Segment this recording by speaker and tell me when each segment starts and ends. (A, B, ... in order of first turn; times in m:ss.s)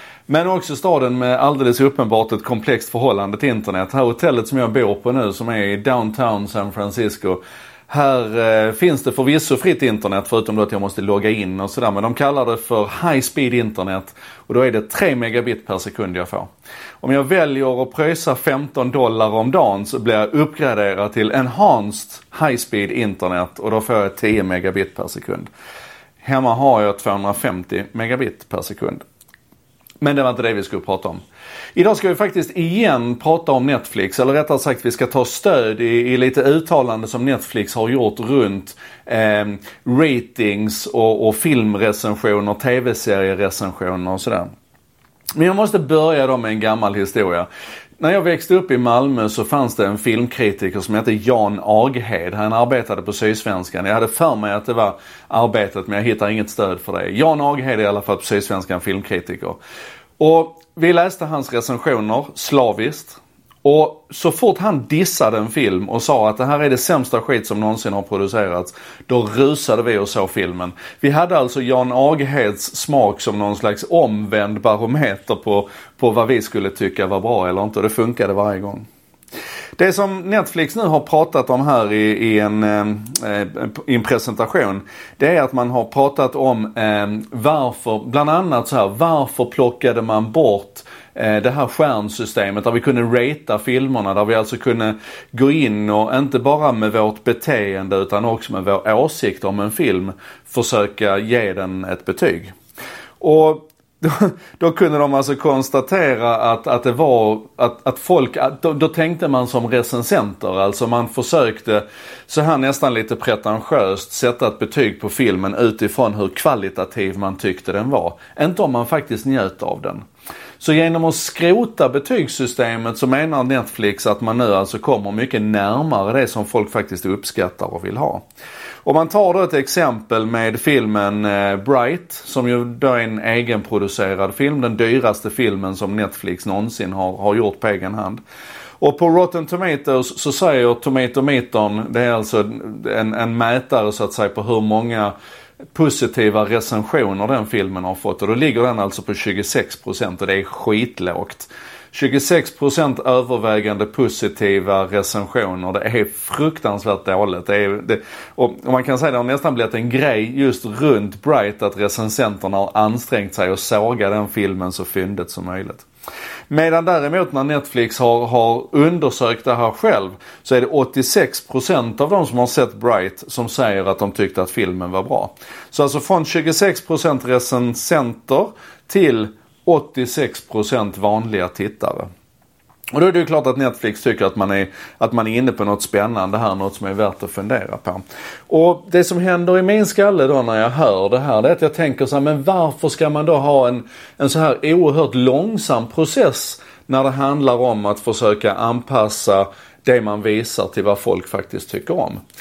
0:00.3-0:16.5 A
0:17.0-0:25.5 A
0:26.2-0:29.0 A
0:30.0-0:31.2 A
0:31.7-0:44.5 A
0:45.4-0:47.5 A
0:48.0-0:59.6 A
1:00.2-1:18.8 A
1:19.8-1:42.5 A
1:43.2-2:00.0 A
2:00.6-2:08.2 A
2:08.8-2:18.2 A
2:18.8-2:25.1 A
2:25.7-2:45.8 A
2:46.5-3:02.1 A
3:02.9-3:22.2 A